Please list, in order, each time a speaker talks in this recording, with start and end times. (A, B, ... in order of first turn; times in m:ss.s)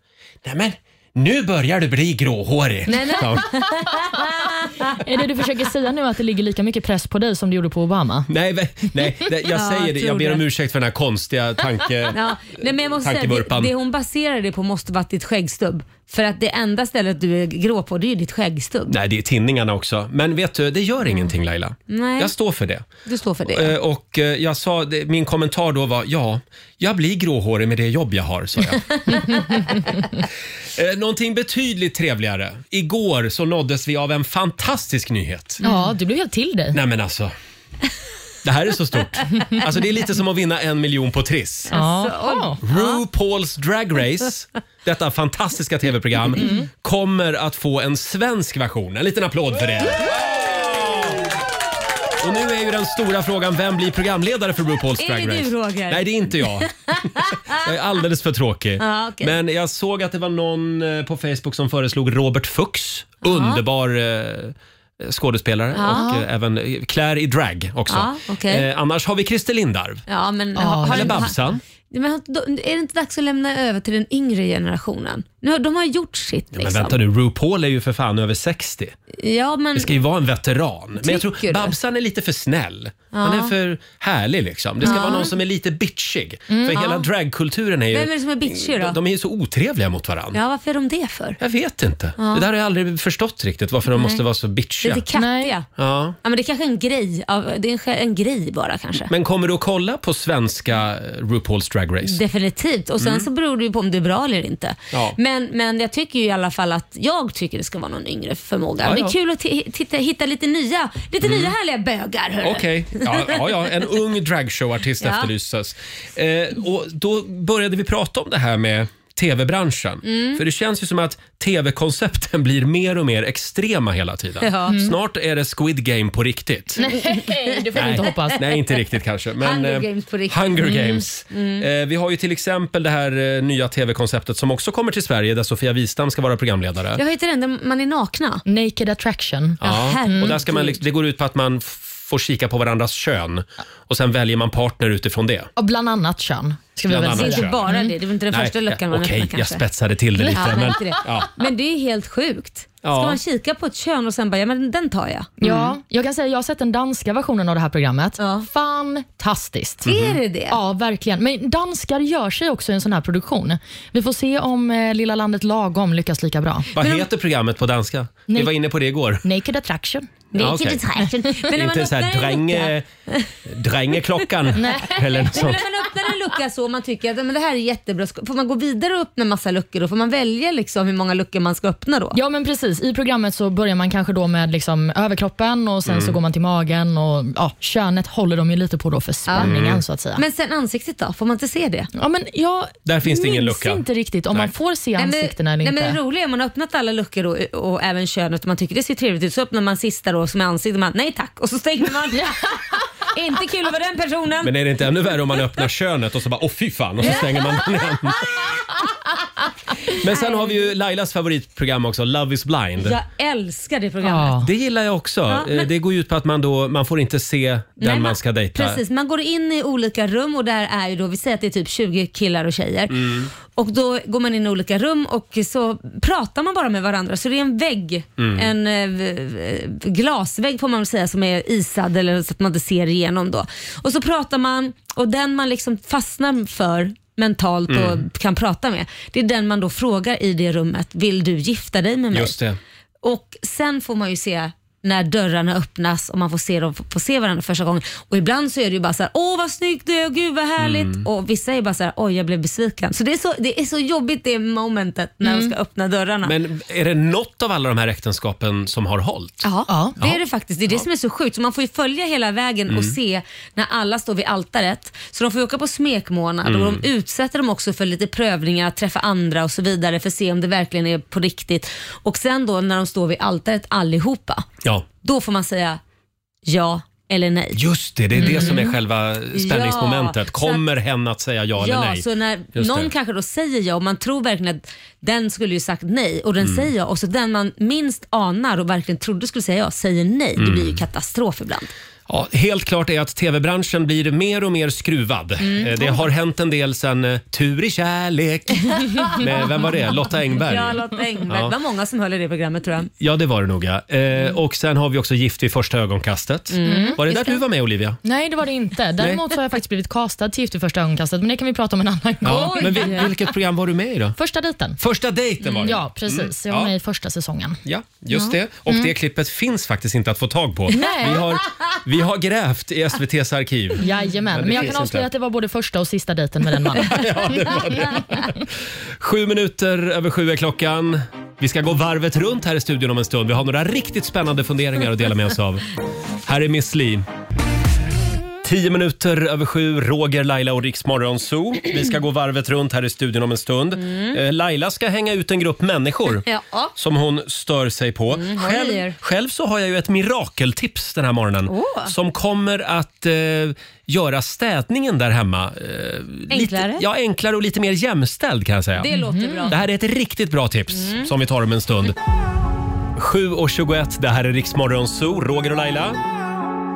0:00.4-0:03.6 A
0:02.9-0:04.9 B
0:05.0-0:08.3 C
0:08.3-0:12.2 A
0:09.5-0:10.4 B
0:12.1-0:19.0 B
0:13.0-0:13.7 A
0:18.9-0:22.9 A
0:21.9-0:22.3 B
0:23.0-0:23.7 B
0:23.5-0:35.6 A
0:35.6-0:36.8 C
0:36.7-0:37.3 A
0:38.4-0:41.7 A
0:41.7-0:43.0 B
0:41.7-0:42.6 C
0:42.6-0:51.3 A
0:46.4-0:46.7 C
0:52.2-1:10.0 A
0:55.0-0:57.5 B
0:58.8-0:59.3 B
1:03.2-1:03.6 B
1:05.7-1:06.1 B
1:05.9-1:06.2 C
1:07.9-1:08.7 B
1:10.1-1:11.3 B
1:10.6-1:11.3 C
1:10.9-1:11.6 A
1:11.9-1:17.0 B
1:16.5-1:19.0 A
1:19.2-1:19.9 B
1:19.7-1:30.4 A
1:21.0-1:21.7 B
1:23.1-1:23.5 B
1:24.8-1:25.3 B
1:26.5-1:26.8 C
1:26.7-1:27.1 B
1:27.9-1:29.0 B
1:30.3-1:31.4 B
1:31.4-1:35.0 A
1:32.2-1:32.4 B
1:33.9-1:34.2 B
1:34.8-1:35.7 B
1:35.1-1:35.5 C
1:35.8-1:36.2 A
1:36.2-1:39.1 B
1:39.1-1:42.2 A
1:42.0-1:53.4 B
1:43.0-1:43.3 A
1:48.8-1:49.1 A
1:51.2-1:51.5 A
1:52.4-2:06.8 A
1:55.0-1:55.3 B
2:00.0-2:00.4 B
2:04.4-2:04.8 B
2:04.7-2:04.9 C
2:06.8-2:08.4 C
2:06.9-2:08.1 B
2:07.7-2:17.0 A
2:09.4-2:11.6 B
2:17.0-2:18.4 B
2:18.4-2:20.4 C
2:19.6-2:25.5 A
2:19.6-2:20.8 B
2:25.6-2:27.9 C
2:26.8-2:27.7 A
2:27.1-2:29.6 B
2:28.3-2:31.3 A
2:30.3-2:35.3 B
2:32.8-2:33.2 A
2:35.4-2:39.8 C
2:35.4-2:35.7 A
2:38.2-2:38.5 B
2:39.8-2:40.2 A
2:39.8-2:40.6 B
2:40.5-2:46.7 C
2:46.7-2:49.2 A
2:46.8-2:47.0 B
2:48.3-2:48.5 C
2:49.2-2:50.1 C
2:50.3-2:53.3 B
2:50.4-2:50.8 A
2:51.5-2:52.9 A
2:53.4-2:55.6 A
2:54.5-2:55.3 C
2:55.2-3:02.2 B
3:02.1-3:10.2 C
3:05.9-3:06.2 A
3:09.4-3:09.8 A
3:10.2-3:11.9 B
3:12.0-3:16.0 C
3:12.8-3:14.5 A
3:15.0-3:24.5 B
3:24.4-3:28.7 A
3:27.0-3:27.6 B
3:29.9-3:33.0 A
3:30.0-3:30.7 B
3:32.8-3:34.4 B
3:34.0-3:34.5 C
3:34.4-3:38.8 A
3:35.3-3:35.7 B
3:37.8-4:02.4 B
3:42.9-3:43.3 A
3:48.2-3:48.5 A
3:57.7-3:58.0 A
4:02.1-4:02.6 A
4:03.0-4:16.3 B
4:10.6-4:11.0 A
4:15.2-4:15.5 C
4:16.2-4:19.4 A
4:19.4-4:34.5 B
4:19.7-4:20.0 C
4:20.0-4:20.8 A
4:22.7-4:22.9 A
4:26.4-4:26.8 A
4:35.0-4:35.8 B
4:36.4-4:37.6 B
4:37.5-4:42.0 A
4:38.2-4:38.6 C
4:38.2-4:38.7 B
4:39.3-4:40.6 B
4:41.6-4:51.7 B
4:42.5-4:42.9 A
4:46.4-4:46.7 A
4:50.4-4:50.8 A
4:52.1-5:01.5 A
4:55.4-4:56.0 B
4:59.0-4:59.6 B
5:00.3-5:02.9 B
5:03.0-5:08.0 A
5:06.5-5:07.4 B
5:06.6-5:07.0 C
5:08.0-5:13.1 C
5:12.2-5:14.2 A
5:12.2-5:13.1 B
5:14.2-5:14.8 C
5:14.8-5:16.7 A
5:15.4-5:15.8 B
5:15.6-5:17.6 C
5:17.6-5:25.1 A
5:20.7-5:21.2 C
5:23.8-5:26.9 C
5:26.7-5:35.6 A
5:36.2-5:37.0 A
5:38.4-5:58.9 A
5:43.8-5:44.2 B
5:46.2-5:46.7 B
5:48.1-5:49.0 B
5:51.5-5:51.9 B
5:56.3-5:56.8 B
5:58.8-5:59.6 B
5:58.9-5:59.5 C
5:59.5-6:02.0 A
6:00.7-6:01.1 B
6:03.0-6:06.0 A